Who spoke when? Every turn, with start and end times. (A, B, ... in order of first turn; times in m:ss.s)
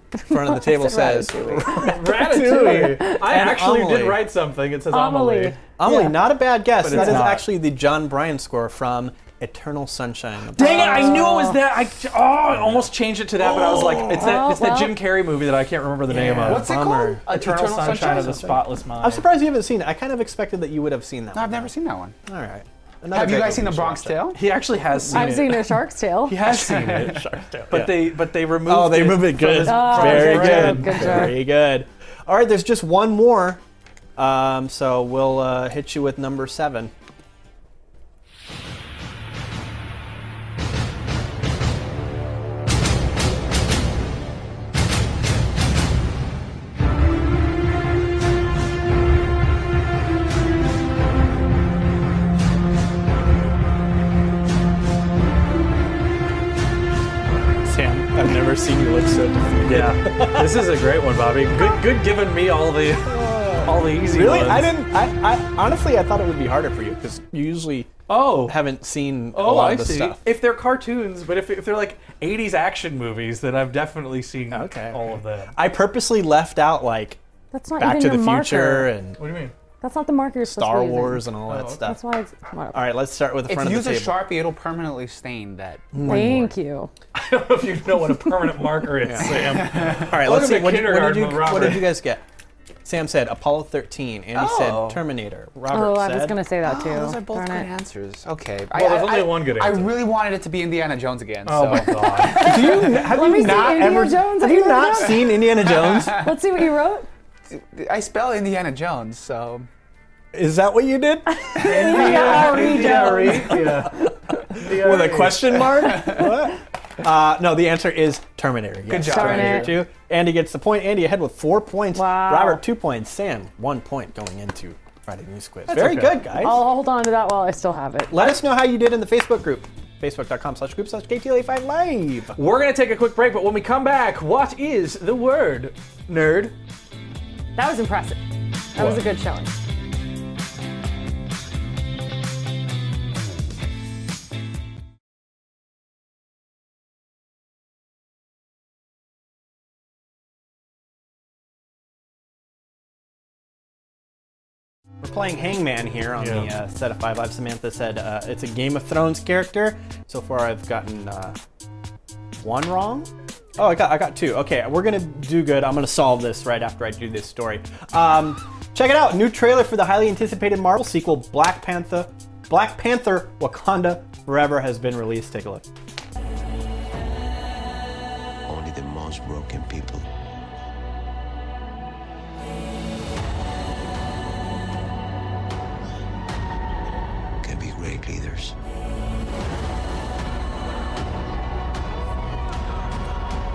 0:00.2-0:03.3 A
0:00.2-0:04.3 B
0:01.7-0:05.6 C
0:04.9-0:06.1 A
0:05.8-0:11.6 B
0:06.8-0:07.5 C
0:06.9-0:07.2 A
0:10.5-0:19.3 C
0:10.6-0:11.5 A
0:12.4-0:14.4 B
0:14.1-0:15.0 A
0:16.1-0:18.5 D
0:16.1-0:21.7 B
0:21.3-0:22.2 D
0:22.2-0:24.4 B
0:23.1-0:24.4 D
0:24.3-0:31.4 C
0:25.1-0:26.4 A
0:26.4-0:27.2 D
0:27.7-0:33.6 B
0:29.5-0:31.4 A
0:34.2-0:36.9 B
0:57.6-1:00.7 B
0:59.6-1:04.8 C
1:03.0-1:10.2 B
1:08.1-1:08.7 C
1:09.3-1:15.6 C
1:14.5-1:17.2 B
1:17.5-1:18.9 A
1:17.8-1:19.2 B
1:19.2-1:19.5 C
1:19.8-1:23.0 A
1:20.4-1:22.0 B
1:21.5-1:21.9 C
1:22.7-1:24.2 B
1:23.5-1:26.3 D
1:25.9-1:26.5 B
1:26.0-1:26.9 A
1:27.1-1:31.9 C
1:28.9-1:32.2 B
1:29.2-1:30.2 D
1:32.8-1:36.4 B
1:34.3-1:35.0 D
1:35.7-1:37.7 A
1:36.6-1:43.8 D
1:38.7-1:40.0 C
1:41.4-1:42.6 C
1:42.2-1:47.1 A
1:42.4-1:46.3 B
1:45.3-1:46.3 D
1:47.5-1:49.7 D
1:50.3-2:06.6 B
1:51.3-1:53.7 A
1:51.5-1:55.6 C
1:51.9-1:52.2 D
1:55.9-1:56.2 D
1:58.9-1:59.8 D
1:59.0-1:59.8 A
2:01.9-2:02.6 A
2:05.7-2:06.1 C
2:06.3-2:08.3 A
2:08.1-2:12.4 B
2:12.4-2:16.6 C
2:17.6-2:18.2 A
2:18.7-2:19.6 A
2:18.8-2:19.0 C
2:35.0-2:41.4 B
2:36.2-2:36.5 C
2:42.4-2:55.6 B
2:58.5-3:00.1 E
3:07.4-3:08.6 E